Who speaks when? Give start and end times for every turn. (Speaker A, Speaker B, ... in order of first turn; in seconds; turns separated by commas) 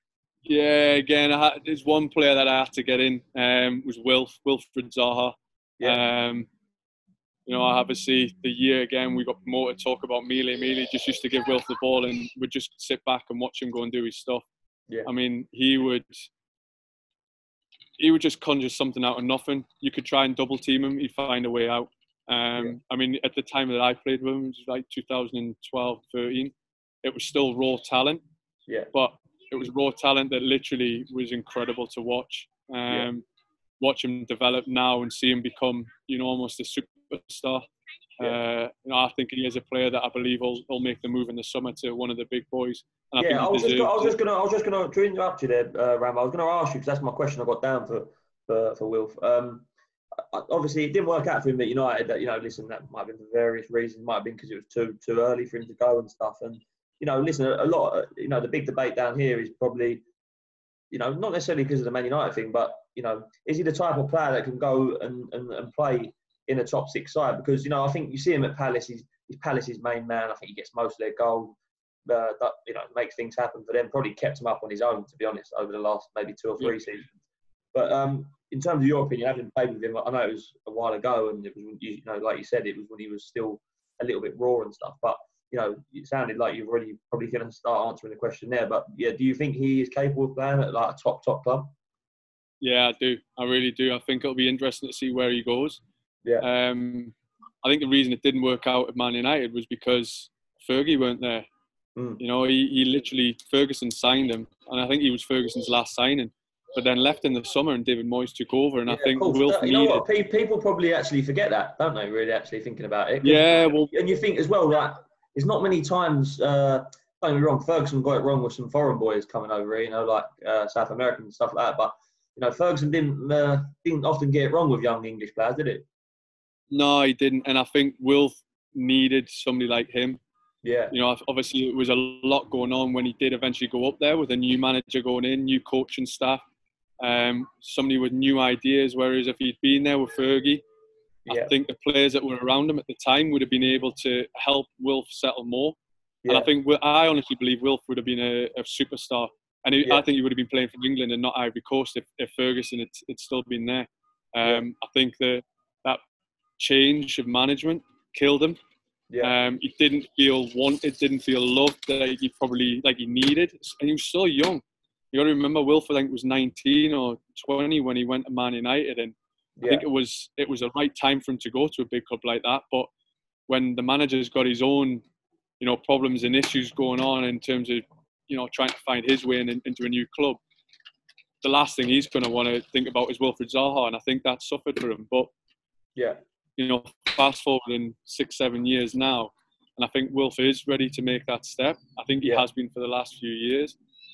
Speaker A: 0.5-6.5, Speaker A: 7.5-14.5, Speaker A: 15.1-16.2, Speaker A: 18.0-28.2, Speaker A: 28.9-33.2, Speaker A: 33.8-37.6, Speaker A: 38.2-44.1, Speaker B: 43.2-49.7, Speaker B: 50.3-60.0, Speaker B: 60.9-71.6, Speaker B: 72.1-77.1, Speaker B: 77.7-91.7, Speaker A: 92.6-95.8, Speaker A: 96.4-101.5, Speaker B: 102.0-102.2, Speaker A: 102.2-110.0, Speaker B: 108.9-125.9, Speaker A: 113.2-113.9, Speaker A: 126.7-130.2, Speaker B: 130.6-130.9, Speaker A: 130.9-136.4, Speaker A: 137.0-140.6, Speaker B: 141.3-141.5, Speaker A: 141.3-145.8, Speaker B: 146.2-146.5, Speaker A: 146.3-156.0, Speaker A: 156.6-158.6, Speaker A: 159.2-169.2, Speaker B: 169.6-169.9, Speaker A: 169.7-172.9, Speaker A: 173.5-175.1, Speaker A: 175.6-180.4, Speaker A: 181.4-185.3, Speaker A: 186.6-193.8